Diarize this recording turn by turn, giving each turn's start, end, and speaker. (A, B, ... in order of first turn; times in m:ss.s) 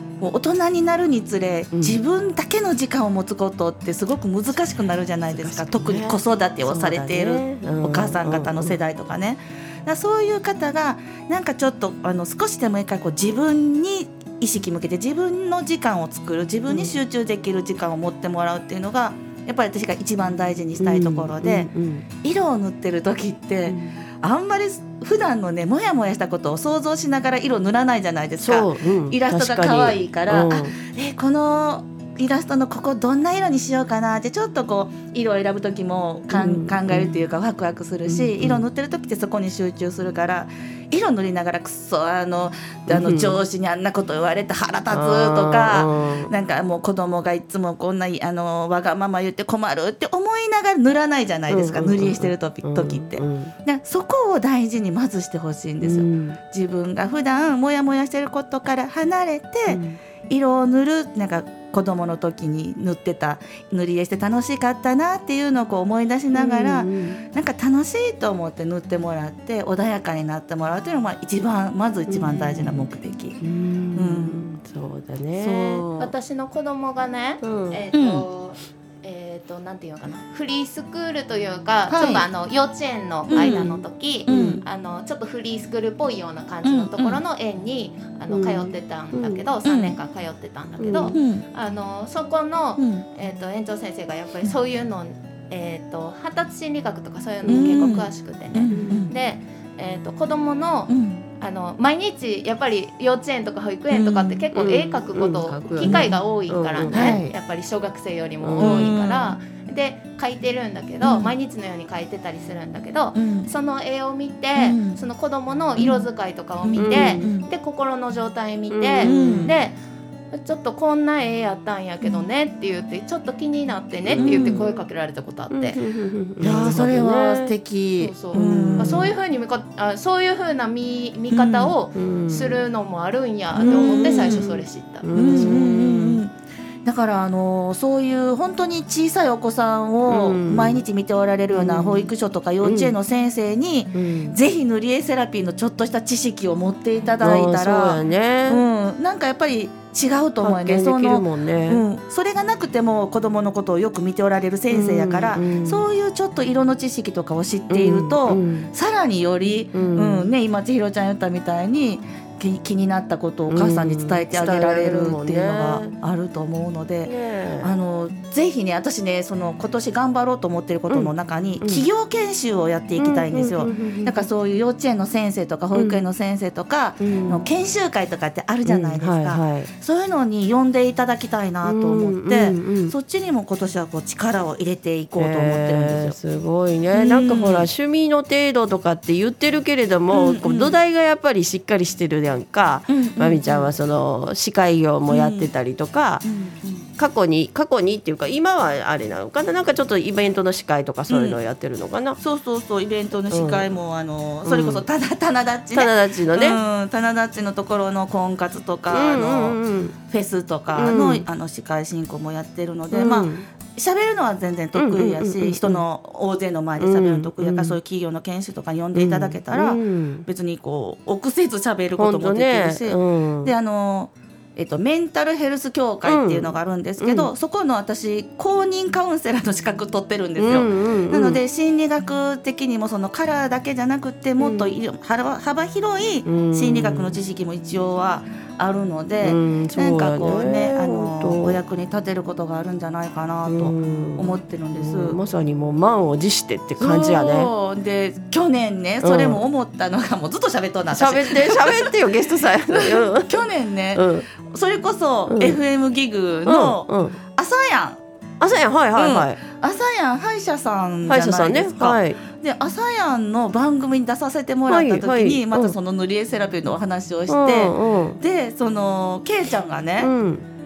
0:00.2-0:21.7 A
0:05.3-0:08.8 B
0:16.7-0:16.9 B
0:20.8-0:22.0 B
0:22.2-1:13.4 A
0:23.7-0:23.9 B
0:28.4-0:30.7 B
0:36.3-0:37.2 B
0:38.0-0:38.6 B
0:42.9-0:43.4 B
0:44.9-0:46.3 B
0:51.5-0:53.5 B
0:55.8-0:56.4 B
0:59.7-1:00.0 B
1:06.3-1:07.2 B
1:12.1-1:12.9 B
1:13.4-1:15.8 B
1:13.9-1:14.4 A
1:15.4-1:16.1 A
1:16.0-1:59.8 C
1:17.4-1:17.8 B
1:17.9-1:18.2 A
1:21.9-1:22.2 A
1:23.3-1:24.6 A
1:23.4-1:23.7 B
1:24.3-1:24.6 B
1:26.6-1:27.2 A
1:28.3-1:29.4 B
1:29.6-1:30.0 A
1:30.8-1:31.2 B
1:31.1-1:31.4 A
1:32.8-1:33.0 A
1:37.4-1:37.7 B
1:37.5-1:39.1 A
1:38.7-1:39.1 B
1:40.9-1:41.2 A
1:43.9-1:44.4 A
1:44.5-1:47.2 B
1:45.8-1:46.2 A
1:46.9-1:47.3 A
1:48.4-1:48.9 B
1:48.6-1:49.4 A
1:51.0-1:51.3 A
1:53.1-1:53.5 A
1:54.6-1:55.0 A
1:55.8-1:56.0 A
1:56.6-1:57.5 A
1:56.8-1:57.2 B
1:58.7-1:59.5 B
1:59.0-1:59.5 A
2:00.3-2:05.8 C
2:04.1-2:04.7 B
2:04.1-2:04.6 A
2:05.5-2:07.5 B
2:06.4-2:09.1 A
2:08.0-2:15.6 C
2:08.3-2:09.1 B
2:11.3-2:11.7 A
2:11.9-2:12.6 B
2:13.5-2:14.4 A
2:13.6-2:16.2 B
2:15.1-2:16.3 A
2:16.8-3:06.2 A
2:20.1-2:20.8 B
2:21.5-2:22.9 B
2:23.9-2:24.4 B
2:27.2-2:28.6 B
2:30.4-2:31.8 B
2:34.7-2:35.8 B
2:37.7-2:38.7 B
2:39.7-2:40.3 B
2:43.5-2:46.0 B
2:47.0-2:47.7 B
2:50.9-2:51.8 B
2:53.0-2:54.2 B
2:55.7-2:56.0 B
2:57.0-2:57.5 B
2:58.6-2:59.7 B
3:01.6-3:02.9 B
3:05.2-3:16.2 B
3:06.9-3:07.7 A
3:10.1-3:10.8 A
3:12.9-3:13.7 A
3:15.1-3:15.5 A
3:16.2-3:16.9 A
3:17.0-3:22.2 B
3:21.1-3:21.4 A
3:22.2-4:05.2 A
3:23.3-3:23.7 B
3:24.4-3:24.8 B
3:25.7-3:26.6 B
3:28.9-3:29.9 B
3:30.7-3:31.2 B
3:32.9-3:33.5 B
3:34.7-3:35.8 B
3:36.8-3:37.8 B
3:38.9-3:40.2 B
3:42.0-3:43.5 B
3:46.0-3:47.3 B
3:50.4-3:51.4 B
3:54.4-3:54.7 B
3:56.2-3:57.2 B
3:59.2-4:01.6 B
4:03.4-4:07.5 B
4:06.8-4:11.9 A
4:09.0-4:09.4 B
4:10.9-4:13.4 B
4:12.7-4:18.0 A
4:13.9-4:14.3 B
4:15.3-4:15.6 B
4:16.4-4:17.2 B
4:18.4-4:19.4 B
4:19.0-4:30.1 A
4:21.1-4:22.2 B
4:24.7-4:25.8 B
4:27.3-4:28.2 B
4:30.0-4:30.4 B